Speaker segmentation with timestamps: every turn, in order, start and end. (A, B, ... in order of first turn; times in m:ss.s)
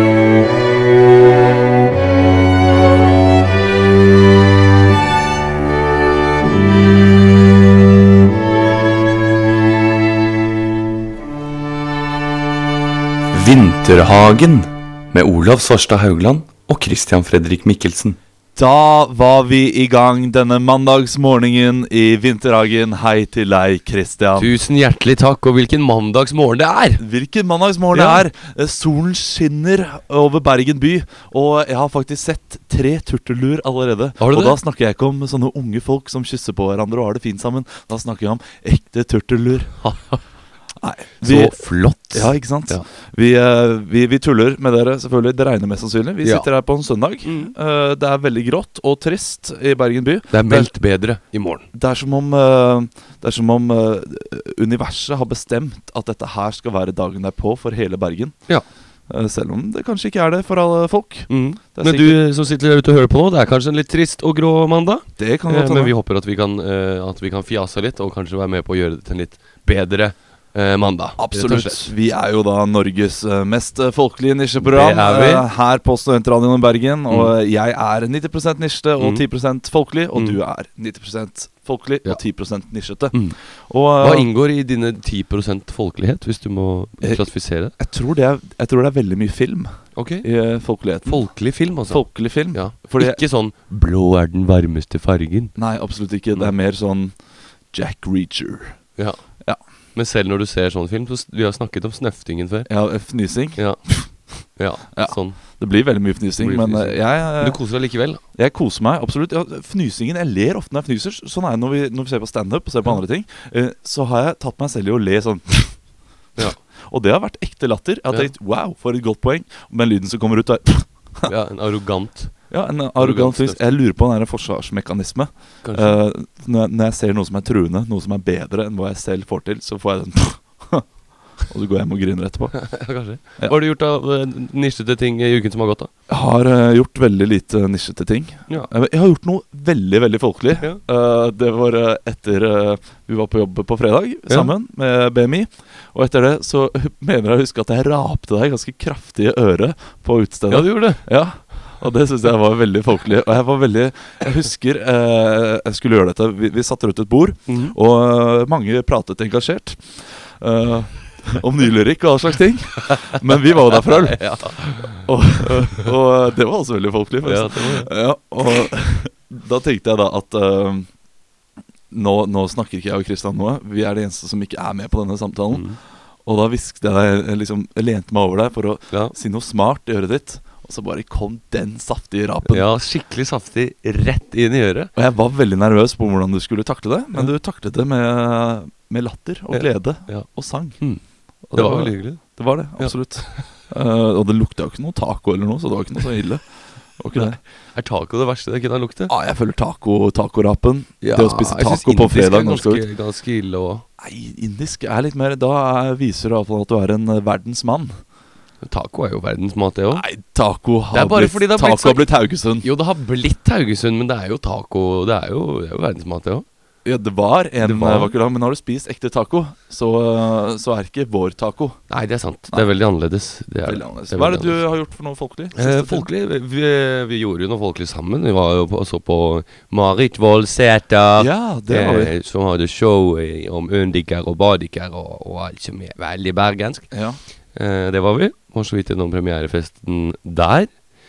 0:13.3-0:18.2 A
0:18.6-0:24.5 B
0:24.4-0:27.0 C
0:27.0-0:39.8 B
0:27.9-0:28.2 C
0:34.2-0:34.6 C
0:39.8-0:40.2 C
0:40.8-0:50.9 B
0:41.2-0:42.8 C
0:46.2-0:46.5 C
0:47.2-0:47.6 C
0:50.3-0:51.7 C
0:51.7-1:02.2 B
1:01.3-1:11.9 C
1:05.2-1:06.0 B
1:11.2-1:24.3 B
1:14.6-1:15.5 C
1:17.1-1:17.4 C
1:19.0-1:19.3 C
1:20.1-1:20.4 C
1:23.1-1:27.7 C
1:27.0-1:33.2 B
1:30.0-1:35.8 C
1:35.6-1:39.6 B
1:39.0-1:45.7 C
1:42.7-2:01.3 B
1:46.4-1:48.2 C
1:58.1-1:58.3 C
2:01.2-2:03.8 C
2:02.5-2:13.6 B
2:05.6-2:06.0 C
2:12.5-2:15.9 C
2:16.1-2:51.0 B
2:24.3-2:24.5 C
2:30.5-2:31.1 C
2:37.5-2:37.8 C
2:42.9-2:45.9 C
2:47.2-2:47.9 C
2:51.9-3:02.7 B
2:55.5-2:55.8 C
3:02.5-3:04.9 C
3:05.0-3:17.4 B
3:09.5-3:13.5 C
3:17.1-3:19.1 C
3:19.1-3:22.9 B
3:21.0-3:23.9 C
3:24.0-3:28.0 B
3:28.6-3:30.1 C
3:29.9-3:32.7 B
3:30.9-3:36.5 C
3:36.8-3:42.0 B
3:37.6-3:38.2 C
3:41.9-3:44.6 C
3:43.6-3:46.1 B
3:45.6-3:57.0 C
3:51.2-3:52.1 B
3:56.9-3:57.2 B
3:57.5-4:00.9 C